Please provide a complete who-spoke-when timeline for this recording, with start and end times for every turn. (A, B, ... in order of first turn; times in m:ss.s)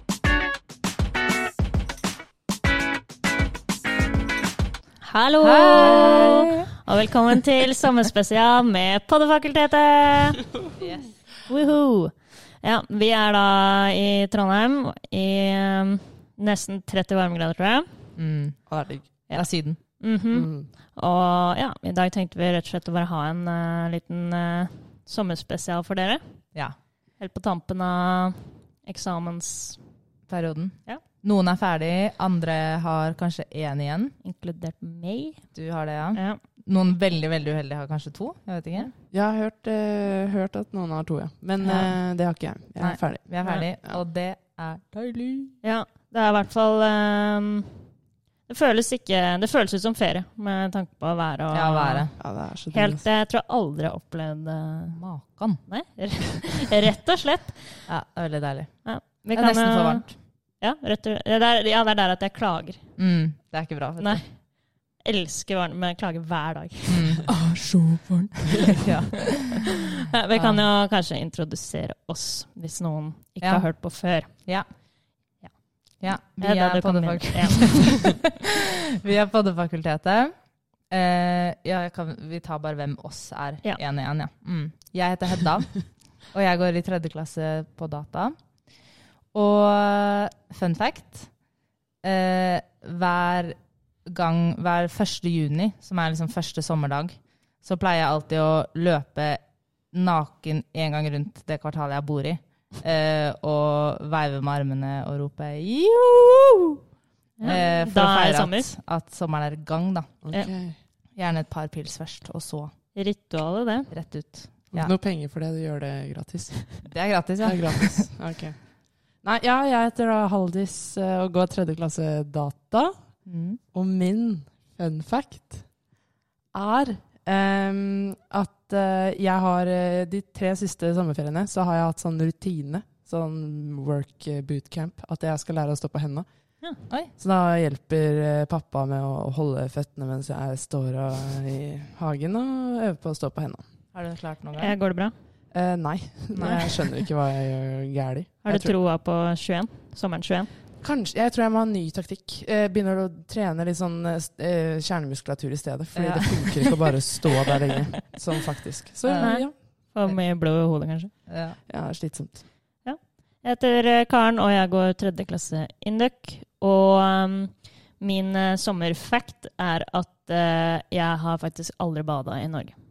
0:05.0-0:10.4 A
0:05.4-0:06.7 B
0:10.8-0:11.1 B
0:11.5-0:17.9 A
0:18.2-0:18.6 B
0:18.7-0:19.0 C
0:19.3-0:26.2 A
0:19.3-0:19.8 B
0:20.3-0:20.7 C
0:27.2-0:29.8 A
0:30.3-0:34.1 B
0:34.2-0:35.5 A
0:35.5-0:38.9 B
0:36.1-0:36.4 A
0:39.1-0:43.3 C
0:41.6-0:42.0 B
0:42.8-0:45.6 B
0:43.4-0:43.7 A
0:45.6-0:47.8 A
0:48.5-0:52.1 A
0:51.5-0:52.1 B
0:52.2-0:53.0 C
0:52.7-0:55.0 A
0:54.9-0:55.6 B
0:55.6-0:57.8 A
0:57.9-0:58.8 B
0:58.8-1:02.8 A
0:59.3-1:00.1 B
1:03.0-1:04.2 B
1:04.0-1:04.3 A
1:05.0-1:07.4 A
1:06.9-1:10.6 B
1:08.3-1:14.4 A
1:14.4-1:14.7 B
1:16.0-1:18.5 B
1:16.4-1:18.2 A
1:19.0-1:20.3 B
1:20.9-1:28.4 B
1:29.3-1:31.3 B
1:32.0-1:46.8 B
1:47.4-1:48.7 A
1:47.4-1:50.1 B
1:50.2-1:50.8 C
1:51.2-1:52.7 B
1:52.9-1:53.9 A
1:53.9-1:54.9 B
1:54.7-1:58.6 C
1:56.8-1:58.1 B
1:59.2-2:03.0 C
2:03.2-2:03.6 B
2:03.7-2:05.6 C
2:06.5-2:16.2 C
2:17.2-2:23.6 C
2:23.9-2:24.7 B
2:24.6-2:25.1 A
2:25.5-2:28.7 C
2:26.3-2:26.7 B
2:26.4-2:26.8 A
2:28.4-2:30.5 A
2:30.8-2:39.5 C
2:35.9-2:36.7 B
2:39.0-2:39.5 B
2:39.2-2:41.1 A
2:41.3-2:41.6 B
2:41.7-2:42.4 C
2:42.8-2:52.7 A